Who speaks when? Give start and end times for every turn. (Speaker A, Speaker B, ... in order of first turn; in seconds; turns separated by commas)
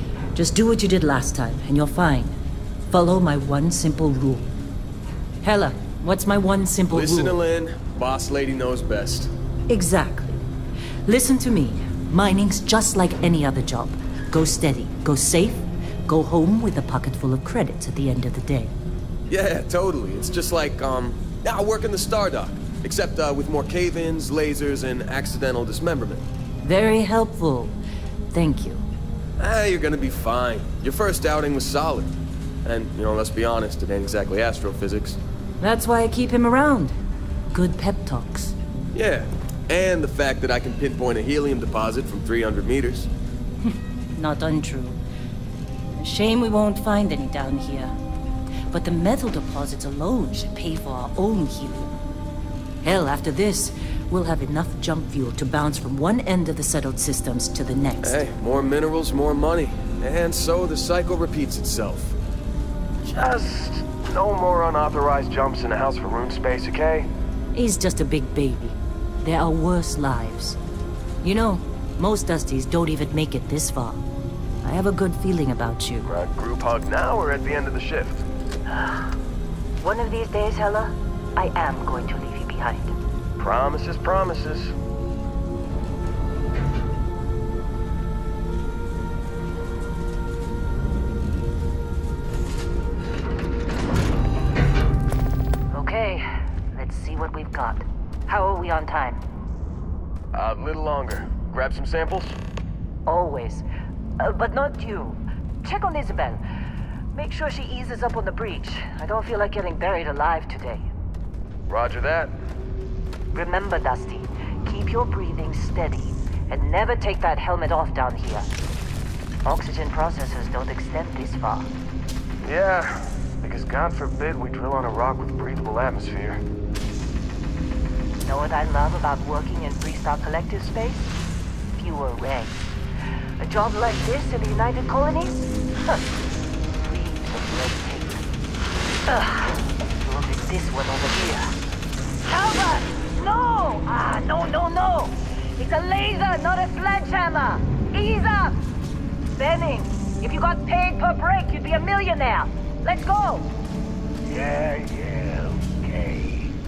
Speaker A: 0.3-2.4, Speaker A: 2.9-4.5, Speaker A: 5.4-7.4, Speaker B: 6.9-9.3, Speaker A: 9.7-10.4, Speaker A: 11.1-18.7, Speaker B: 19.3-26.2, Speaker A: 26.6-27.8, Speaker A: 28.3-28.9, Speaker B: 29.4-35.2, Speaker A: 35.6-37.0, Speaker A: 37.5-38.6, Speaker B: 38.9-43.1, Speaker A: 43.7-45.0, Speaker A: 46.0-48.0, Speaker A: 48.7-51.9, Speaker A: 52.8-58.2, Speaker B: 58.0-62.2, Speaker B: 63.0-67.1, Speaker A: 67.5-70.6, Speaker A: 71.2-74.0, Speaker A: 74.6-76.1, Speaker B: 76.1-78.3, Speaker A: 78.7-79.2, Speaker A: 79.8-83.0, Speaker B: 83.4-84.7, Speaker A: 95.7-99.2, Speaker B: 100.3-102.4, Speaker A: 103.1-103.7, Speaker A: 104.2-106.4, Speaker A: 107.1-110.9, Speaker B: 111.7-112.4, Speaker A: 113.3-118.5, Speaker A: 119.5-121.7, Speaker B: 122.4-126.4, Speaker A: 128.2-131.0, Speaker A: 131.8-132.7, Speaker A: 133.4-136.0, Speaker A: 136.8-138.2, Speaker A: 139.1-141.6, Speaker A: 142.3-148.6, Speaker A: 149.4-153.5, Speaker C: 154.3-156.4